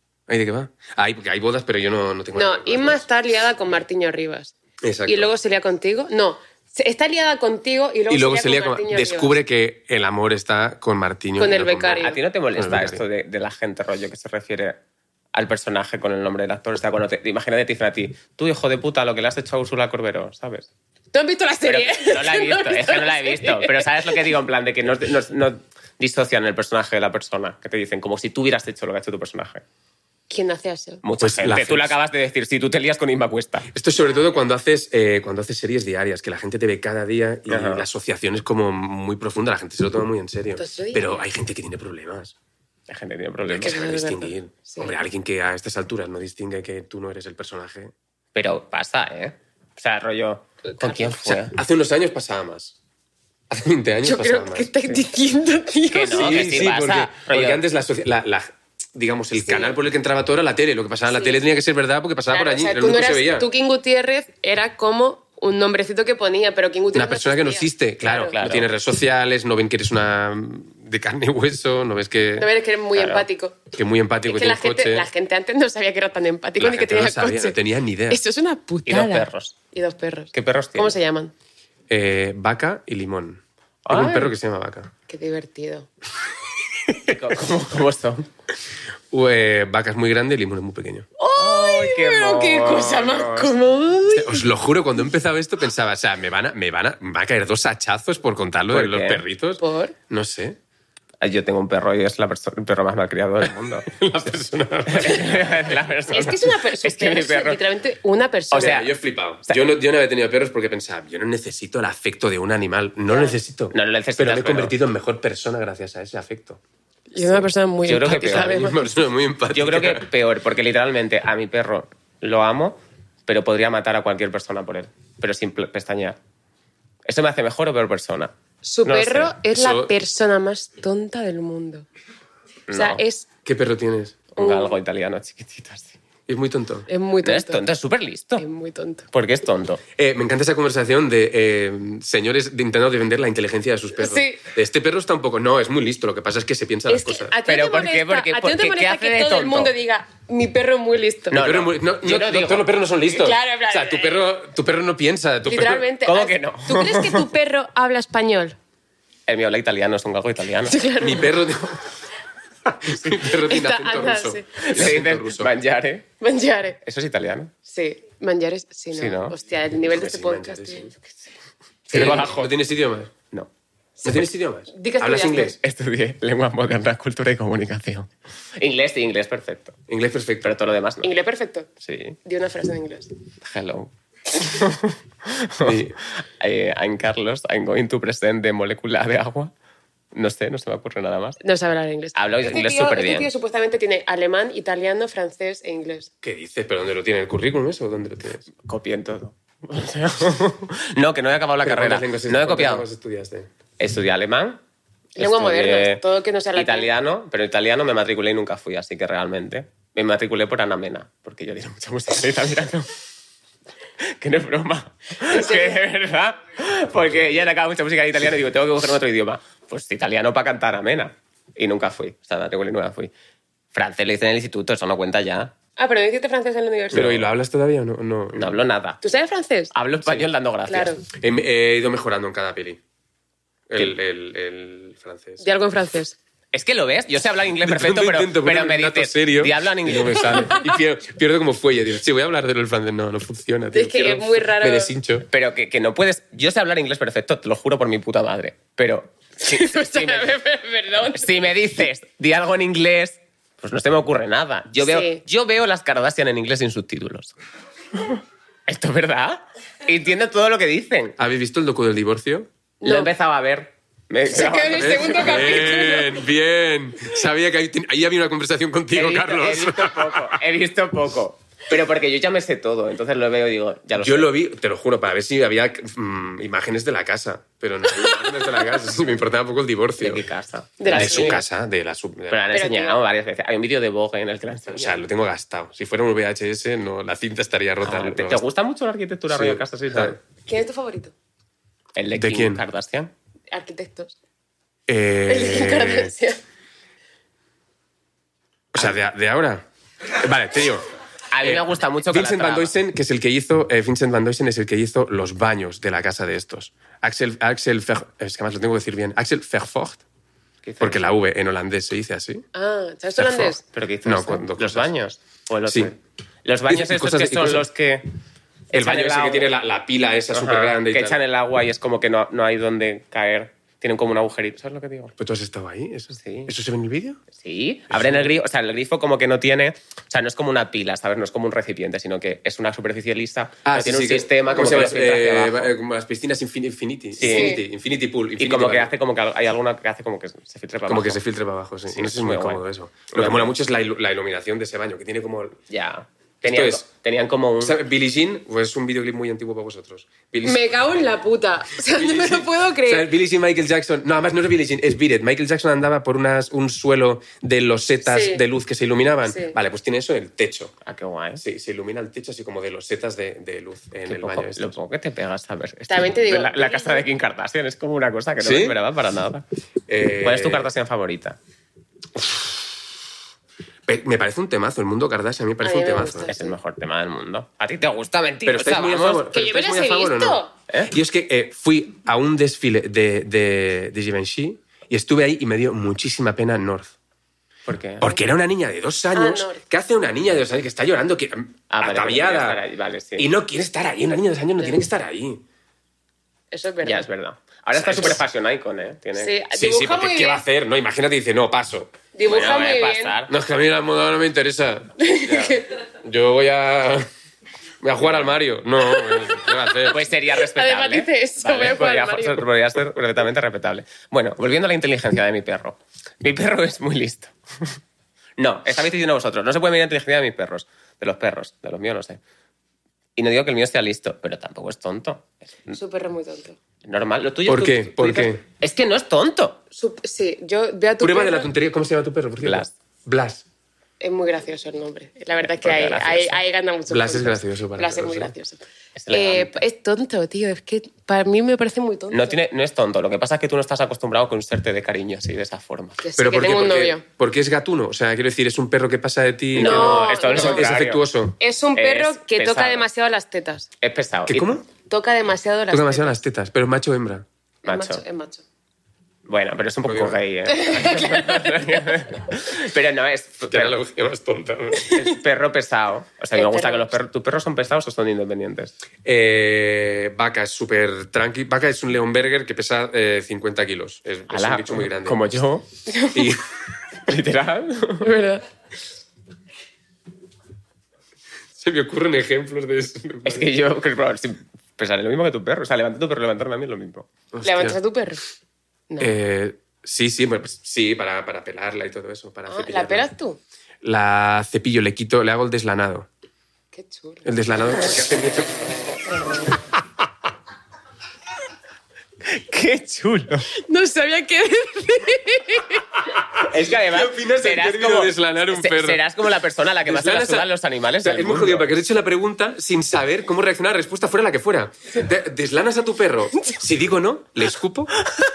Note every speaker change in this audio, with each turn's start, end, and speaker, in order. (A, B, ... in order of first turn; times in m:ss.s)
0:00.3-0:03.0 A
0:02.3-0:04.5 B
0:04.8-0:05.3 A
0:05.0-0:09.4 B
0:08.1-0:13.0 A
0:11.4-0:12.2 B
0:12.0-0:14.8 C
0:15.3-0:20.7 C
0:21.1-0:24.2 B
0:21.6-0:29.6 C
0:30.3-0:31.0 B
0:31.0-0:33.7 C
0:31.2-0:31.9 A
0:33.7-0:42.3 A
0:37.5-0:37.8 C
0:40.6-0:41.2 B
0:42.9-0:43.9 C
0:43.5-0:47.9 A
0:43.6-0:45.0 B
0:48.3-0:51.6 C
0:51.0-0:52.8 A
0:53.5-0:54.7 A
0:54.0-0:56.6 B
0:55.9-0:57.6 C
0:56.1-1:03.5 A
0:59.4-0:59.8 B
1:01.1-1:01.4 B
1:02.3-1:08.3 B
1:06.9-1:12.5 A
1:08.2-1:08.7 C
1:12.4-1:13.7 B
1:12.9-1:13.3 C
1:13.7-1:15.1 A
1:14.2-1:17.6 B
1:16.6-1:18.2 A
1:18.1-1:21.3 B
1:18.8-1:19.6 C
1:20.3-1:20.9 C
1:21.9-1:24.9 A
1:23.8-1:24.3 C
1:25.1-1:25.9 B
1:26.9-1:28.3 C
1:29.1-1:31.0 A
1:31.2-1:34.5 B
1:31.4-1:33.5 C
1:34.1-1:40.6 A
1:38.7-1:39.2 C
1:39.6-1:39.9 B
1:41.2-1:43.9 C
1:43.4-1:45.6 A
1:44.8-1:47.6 C
1:46.1-1:48.8 B
1:48.5-1:48.9 C
1:48.5-1:56.6 A
1:53.1-1:53.4 B
1:53.7-1:54.7 C
1:57.1-1:58.8 B
1:57.2-1:58.6 C
1:58.2-2:00.1 A
1:59.5-2:06.2 C
2:07.0-2:09.4 C
2:08.6-2:11.8 B
2:09.5-2:09.9 A
2:12.7-2:13.0 C
2:12.7-2:13.3 B
2:13.4-2:14.2 A
2:14.3-2:16.0 C
2:14.4-2:14.8 B
2:16.3-2:16.9 A
2:16.9-2:17.6 B
2:17.2-2:18.4 C
2:18.4-2:19.1 B
2:19.1-2:19.8 C
2:20.0-2:27.3 A
2:24.0-2:24.4 B
2:26.9-2:31.5 B
2:27.4-2:29.7 C
2:31.3-2:32.7 C
2:31.3-2:35.9 A
2:33.1-2:34.3 B
2:35.4-2:38.6 B
2:36.0-2:37.3 C
2:39.3-2:40.8 C
2:40.6-2:41.4 B
2:41.0-2:41.8 A
2:42.7-2:45.5 A
2:43.4-2:44.6 B
2:44.6-2:46.1 C
2:46.2-2:46.8 B
2:46.8-2:47.5 C
2:47.6-2:50.9 B
2:48.9-2:49.4 C
2:49.8-2:50.9 A
2:51.9-2:52.5 C
2:51.9-2:53.1 A
2:51.9-2:52.2 B
2:54.0-2:55.6 B
2:54.0-2:55.6 A
2:55.6-2:59.8 C
2:59.9-3:00.5 A
3:00.4-3:01.1 C
3:01.0-3:01.7 B
3:01.8-3:02.2 C
3:02.2-3:03.1 B
3:03.4-3:09.5 C
3:05.6-3:06.0 A
3:10.1-3:11.4 C
3:11.4-3:16.1 B
3:12.1-3:13.3 C
3:16.2-3:18.4 A
3:18.6-3:22.8 C
3:21.6-3:23.5 A
3:23.8-3:24.6 C
3:25.2-3:26.0 C
3:25.2-3:26.9 B
3:26.5-3:32.9 C
3:34.0-3:43.1 C
3:35.3-3:35.8 B
3:43.7-3:45.5 C
3:45.8-3:47.1 B
3:46.9-3:48.6 A
3:46.9-3:47.2 C
3:48.3-3:49.0 C
3:49.0-3:49.7 B
3:49.7-3:51.0 C
3:50.7-3:51.0 B
3:51.1-3:52.8 A
3:53.7-3:55.4 A
3:55.4-3:56.2 B
3:56.5-4:00.6 C
3:57.6-4:05.3 A
4:00.3-4:00.6 B
4:03.7-4:04.9 B
4:05.3-4:10.3 C
4:09.4-4:11.6 B
4:11.1-4:17.3 C
4:14.8-4:15.2 B
4:18.7-4:21.2 C
4:21.2-4:22.5 A
4:22.8-4:23.1 B
4:22.8-4:25.8 C
4:24.3-4:26.2 B
4:24.7-4:30.4 A
4:28.9-4:34.3 C
4:34.0-4:40.2 A
4:40.0-4:41.4 C
4:40.8-4:41.4 B
4:40.9-4:42.4 A
4:42.3-4:45.0 C
4:42.5-4:43.0 B
4:44.7-4:48.4 A
4:47.8-4:50.2 C
4:49.3-4:50.2 A
4:50.4-4:51.1 B
4:52.0-4:53.1 C
4:52.1-4:52.6 A
4:53.5-4:54.1 B
4:54.9-4:56.1 A
4:55.3-4:56.4 B
4:58.7-5:00.8 A
5:01.3-5:02.7 C
5:01.4-5:10.0 A
5:10.6-5:11.1 C
5:10.8-5:12.4 A
5:12.5-5:13.6 B
5:13.2-5:14.9 A
5:13.6-5:18.1 C
5:15.7-5:15.9 A
5:16.7-5:17.7 A
5:18.7-5:19.5 C
5:18.7-5:21.2 A
5:20.3-5:25.1 C
5:25.2-5:27.2 A
5:26.2-5:26.5 C
5:27.3-5:35.7 C
5:27.9-5:28.3 A
5:33.6-5:38.9 A
5:37.2-5:37.6 C
5:37.2-5:37.6 B
5:38.4-5:41.2 C
5:40.8-5:45.6 A
5:41.9-5:43.5 C
5:45.7-5:47.8 C
5:46.4-5:46.8 A
5:47.6-5:50.7 A
5:50.4-5:53.1 B
5:51.9-6:00.7 A
5:58.0-5:58.4 B
5:59.3-5:59.6 B
6:00.8-6:01.4 C
6:01.4-6:04.8 A
6:04.0-6:09.4 C
6:05.9-6:07.1 B
6:08.4-6:08.8 A
6:09.9-6:10.7 A
6:10.2-6:11.4 C
6:12.1-6:12.8 A
6:13.8-6:16.3 A
6:15.6-6:16.6 B
6:16.2-6:19.3 C
6:18.4-6:26.9 A
6:19.2-6:20.5 B
6:27.6-6:28.2 C
6:28.0-6:32.6 A
6:29.1-6:29.6 B
6:31.7-6:33.3 C
6:33.2-6:35.4 A
6:36.5-6:37.1 B
6:36.8-6:39.3 C
6:37.7-6:38.2 A
6:39.1-6:40.4 B
6:39.5-6:42.0 A
6:42.1-6:43.2 B
6:42.2-6:43.3 C
6:43.3-6:47.1 A
6:45.0-6:45.7 B
6:47.8-6:50.0 A
6:48.0-6:48.3 C
6:49.8-6:57.8 C
6:50.4-6:52.4 B
6:58.4-7:02.2 C
7:03.2-7:05.8 C
7:05.7-7:06.6 B
7:06.8-7:09.6 C
7:07.5-7:08.4 A
7:09.8-7:11.5 B
7:11.0-7:13.4 A
7:12.4-7:12.7 C
7:14.0-7:22.4 B
7:15.4-7:16.4 C
7:16.9-7:18.3 A
7:19.0-7:19.6 C
7:22.1-7:26.0 C
7:26.0-7:27.0 B
7:26.2-7:31.4 A
7:29.5-7:31.0 C
7:29.6-7:30.7 B
7:31.4-7:33.7 B
7:31.7-7:32.8 C
7:33.8-7:34.5 C
7:34.3-7:34.6 A
7:34.8-7:36.2 B
7:35.7-7:37.2 A
7:37.6-7:38.0 C
7:37.6-7:38.4 B
7:39.2-7:43.8 C
7:39.8-7:40.2 A
7:40.5-7:41.4 B
7:43.4-7:44.9 A
7:44.9-7:48.7 C
7:46.3-7:46.9 B
7:49.0-7:55.3 A
7:54.3-7:55.6 C
7:55.9-7:56.3 B
7:56.1-7:56.4 A
7:57.0-7:58.1 C
7:58.0-7:58.4 B
8:01.6-8:03.5 A
8:03.2-8:07.1 C
8:07.3-8:07.8 A
8:07.4-8:08.2 B
8:09.0-8:13.1 A
8:12.5-8:13.4 B
8:13.8-8:16.1 A
8:16.7-8:17.3 B
8:17.2-8:18.6 A
8:22.2-8:23.5 C
8:23.6-8:25.8 B
8:26.4-8:29.0 A
8:26.4-8:31.7 C
8:29.8-8:37.9 A